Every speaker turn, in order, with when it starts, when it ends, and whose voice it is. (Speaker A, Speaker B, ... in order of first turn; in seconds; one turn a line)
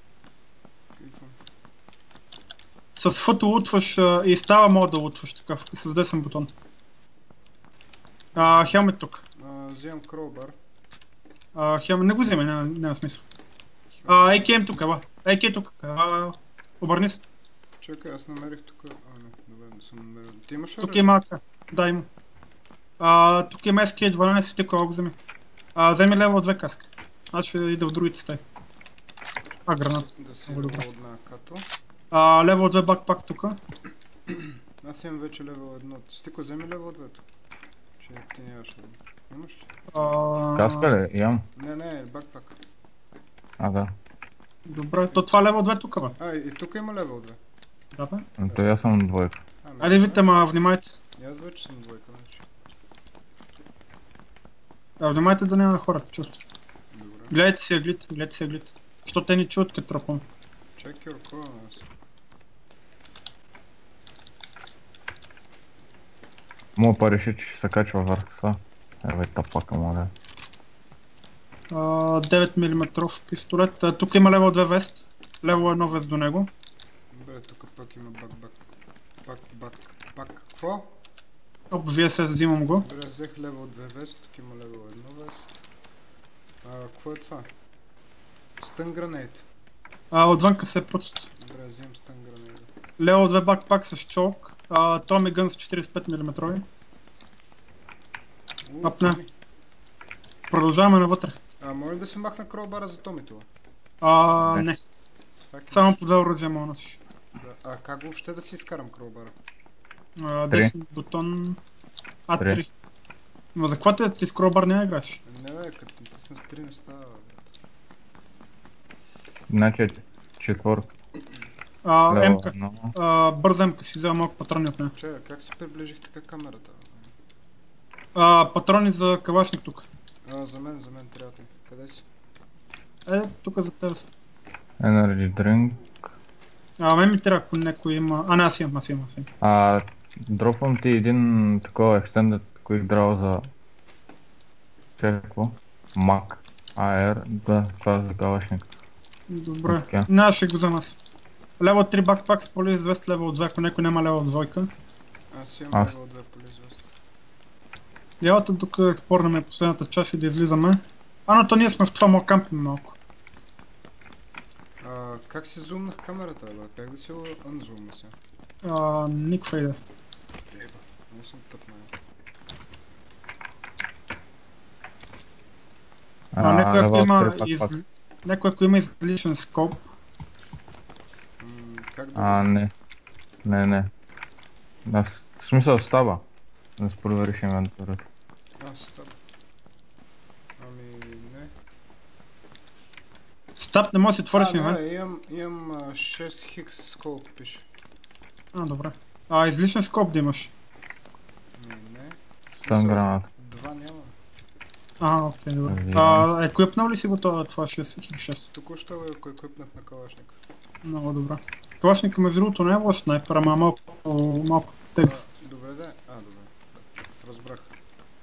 Speaker A: 0.9-1.4
Speaker B: 3.0-6.5
Speaker B: 8.3-9.2
Speaker A: 8.4-8.7
Speaker A: 9.3-10.6
Speaker B: 11.5-13.2
Speaker A: 13.9-14.7
Speaker B: 14.1-17.2
Speaker A: 17.8-21.2
Speaker B: 20.8-22.1
Speaker B: 23.0-25.1
Speaker B: 25.8-28.4
Speaker B: 29.7-30.8
Speaker A: 29.8-31.6
Speaker B: 32.1-33.6
Speaker A: 34.3-37.2
Speaker A: 38.0-39.7
Speaker B: 39.9-40.9
Speaker C: 40.5-41.5
Speaker A: 41.5-42.6
Speaker C: 43.6-43.9
Speaker B: 44.6-46.1
Speaker A: 46.2-47.4
Speaker B: 47.9-48.3
Speaker C: 48.4-49.4
Speaker A: 49.6-50.3
Speaker B: 49.8-50.9
Speaker A: 51.2-52.4
Speaker B: 55.0-56.3
Speaker A: 56.9-57.3
Speaker B: 57.3-60.2
Speaker A: 60.8-61.9
Speaker C: 66.8-70.1
Speaker B: 71.7-76.5
Speaker A: 75.5-75.8
Speaker A: 77.1-78.5
Speaker A: 79.2-80.9
Speaker B: 81.7-82.8
Speaker A: 82.8-85.6
Speaker A: 86.6-87.5
Speaker A: 88.6-89.4
Speaker B: 90.1-91.3
Speaker A: 91.4-92.7
Speaker B: 93.0-96.6
Speaker A: 98.6-99.3
Speaker B: 98.8-99.2
Speaker B: 100.5-101.3
Speaker A: 101.6-103.5
Speaker B: 104.0-104.8
Speaker A: 105.5-106.0
Speaker B: 105.7-107.0
Speaker A: 107.4-109.3
Speaker B: 110.2-111.6
Speaker B: 112.3-112.7
Speaker B: 113.5-115.2
Speaker A: 115.2-117.5
Speaker C: 119.5-120.9
Speaker B: 121.8-124.9
Speaker C: 122.1-122.9
Speaker A: 125.0-127.1
Speaker B: 128.1-129.9
Speaker A: 130.2-132.1
Speaker B: 133.1-134.1
Speaker C: 134.8-135.9
Speaker B: 136.8-139.3
Speaker C: 139.4-143.5
Speaker C: 145.0-148.7
Speaker B: 149.3-151.0
Speaker C: 149.7-150.1
Speaker B: 151.6-154.7
Speaker A: 155.3-156.9
Speaker B: 158.2-162.9
Speaker A: 164.8-168.1
Speaker B: 168.6-169.8
Speaker A: 170.5-171.9
Speaker C: 176.3-177.7
Speaker B: 176.4-179.8
Speaker A: 181.4-182.5
Speaker C: 182.1-182.7
Speaker C: 183.4-183.9
Speaker C: 184.8-186.2
Speaker C: 186.8-188.0
Speaker A: 188.6-189.1
Speaker A: 190.6-191.5
Speaker B: 193.6-194.8
Speaker A: 194.3-197.6
Speaker B: 198.5-200.5
Speaker A: 201.6-204.1
Speaker C: 202.6-203.2
Speaker B: 205.0-208.5
Speaker C: 205.7-206.3
Speaker A: 208.5-210.4
Speaker B: 210.8-215.1
Speaker A: 215.0-216.5
Speaker A: 217.2-217.7